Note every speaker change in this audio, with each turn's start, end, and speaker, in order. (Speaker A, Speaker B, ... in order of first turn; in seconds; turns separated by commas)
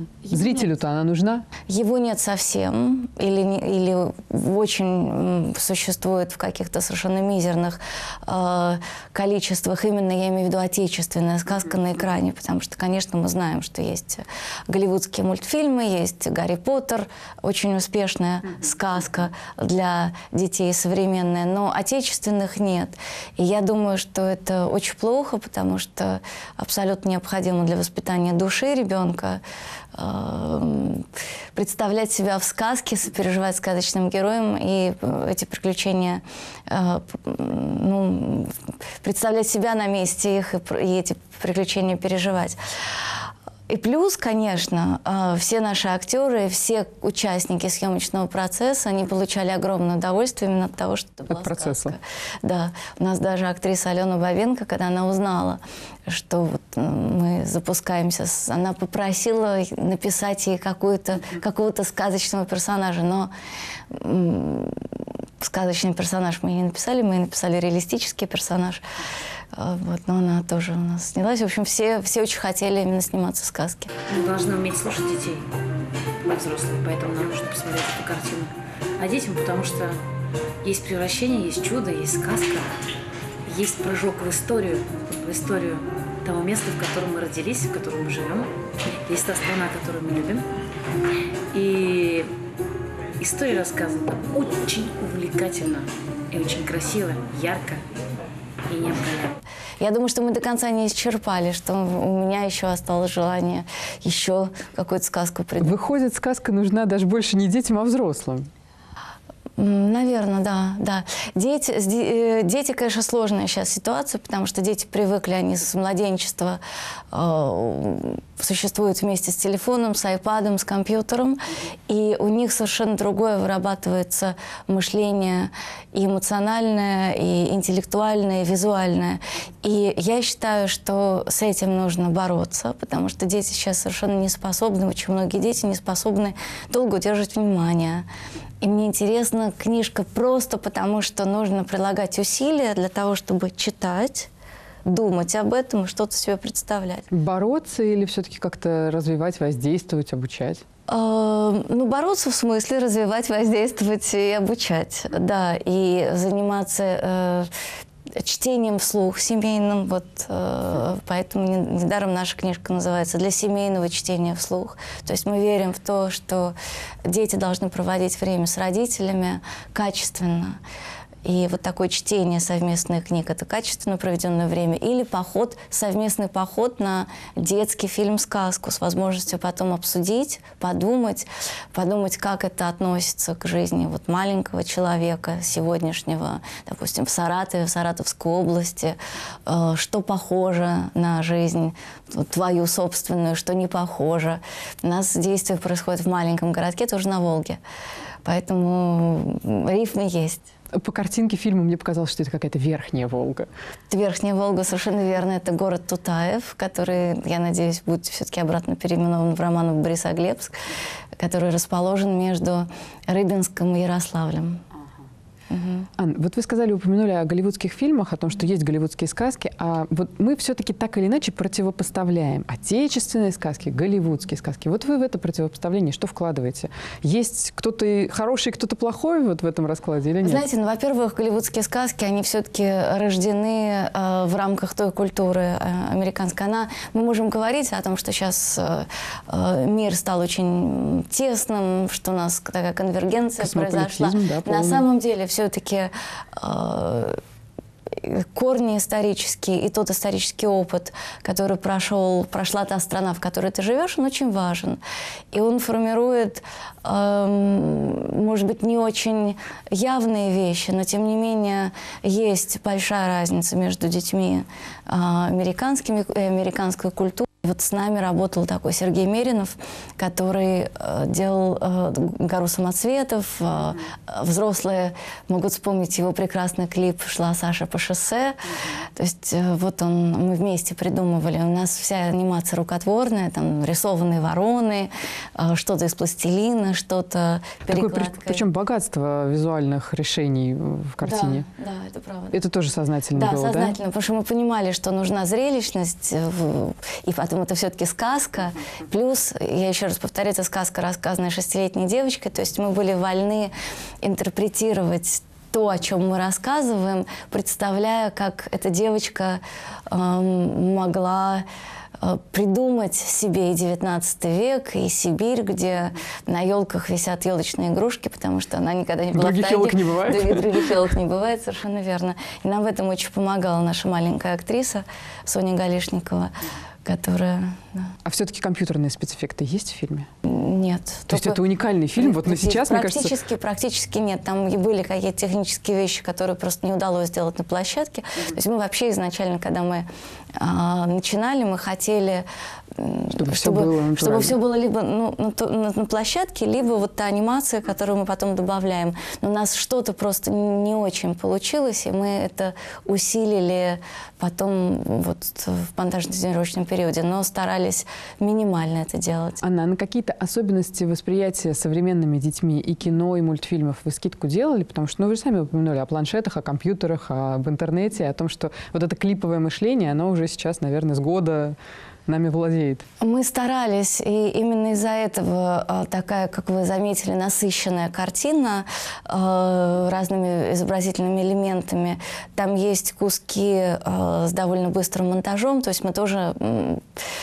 Speaker A: 0.2-1.5, Speaker B: 1.7-29.4, Speaker B: 29.9-42.6, Speaker B: 43.7-63.3, Speaker A: 51.3-52.0, Speaker B: 63.9-64.8, Speaker B: 65.4-68.8, Speaker B: 69.5-73.9, Speaker C: 74.1-75.5, Speaker C: 76.2-80.0, Speaker C: 80.6-82.7, Speaker C: 83.5-88.5, Speaker C: 89.1-90.5, Speaker C: 91.5-92.3, Speaker C: 93.2-97.8, Speaker C: 98.7-99.4, Speaker B: 99.8-105.8, Speaker A: 105.6-108.5, Speaker B: 109.6-116.6, Speaker B: 117.1-138.1, Speaker B: 138.6-144.3, Speaker B: 144.9-147.1, Speaker A: 147.1-150.6, Speaker B: 150.9-157.5, Speaker B: 158.2-166.5, Speaker B: 167.1-170.6, Speaker B: 171.2-197.6, Speaker B: 198.2-200.5, Speaker A: 200.7-203.5, Speaker B: 203.9-210.6, Speaker B: 211.2-214.6, Speaker B: 215.5-215.9, Speaker A: 216.0-230.5, Speaker B: 230.2-247.2, Speaker A: 243.4-244.9, Speaker B: 247.9-254.8, Speaker B: 255.3-288.4, Speaker A: 287.7-291.4, Speaker B: 291.0-292.4, Speaker A: 292.3-293.8, Speaker B: 293.1-311.4, Speaker B: 312.0-327.9, Speaker A: 319.1-320.7, Speaker A: 328.1-330.1, Speaker B: 330.2-331.4, Speaker A: 331.1-333.1, Speaker B: 332.0-342.2, Speaker B: 342.8-359.4, Speaker A: 343.1-344.4, Speaker A: 359.4-371.6, Speaker A: 372.1-372.8, Speaker B: 373.0-386.8